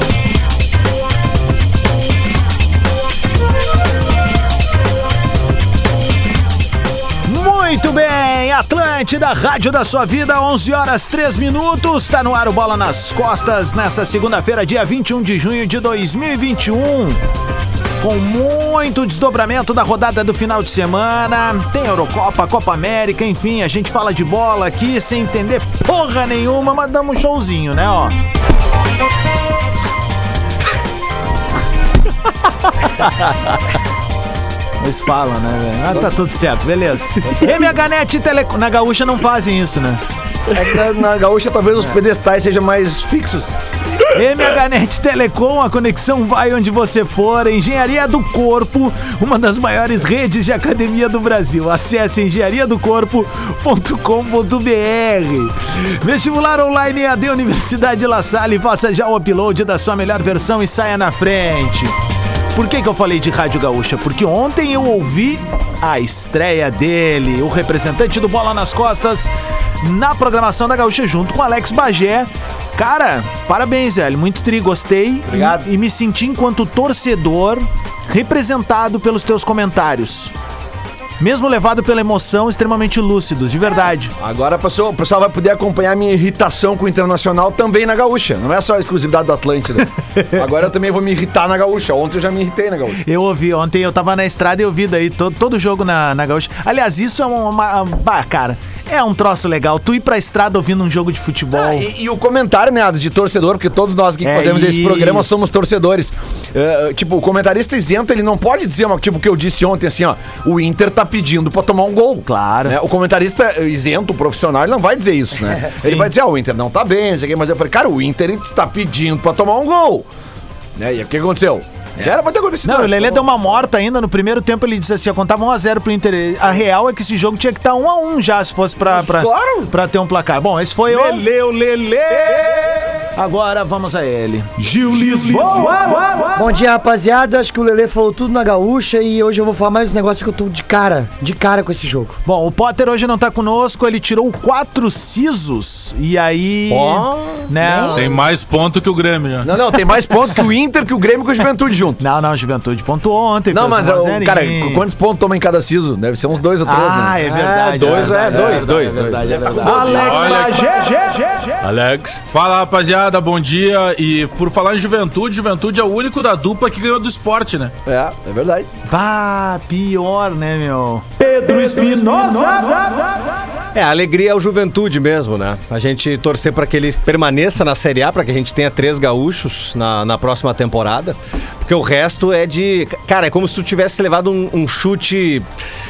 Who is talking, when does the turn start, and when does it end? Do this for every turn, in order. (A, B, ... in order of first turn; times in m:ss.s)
0:07.2-0:17.2 A
0:18.0-0:28.2 A
0:34.8-0:40.0 A
0:40.5-0:43.6 B
0:44.1-1:01.9 A
1:02.5-1:09.3 A
1:09.8-1:20.3 A
1:15.3-1:15.6 B
1:21.2-1:24.1 A
1:24.2-1:33.0 B
1:33.0-1:41.9 A
1:41.5-2:00.0 B
1:44.2-1:45.4 A
1:52.3-1:52.8 A
1:55.8-1:56.1 A
2:00.8-2:03.2 B
2:02.6-2:16.5 A
2:08.8-2:09.7 B
2:10.9-2:11.8 C
2:16.4-2:22.2 D
2:22.2-2:28.1 A
2:26.7-2:27.5 C
2:27.6-2:28.0 D
2:27.9-2:29.5 E
2:29.4-2:32.0 B
2:32.0-2:34.8 A
2:33.5-2:37.2 B
2:36.6-2:41.6 A
2:37.2-2:40.1 C
2:38.2-2:38.8 B
2:39.9-2:40.7 E
2:41.6-2:42.2 C
2:42.3-2:47.7 E
2:47.8-2:48.7 B
2:48.9-2:53.2 A
2:53.7-3:05.4 C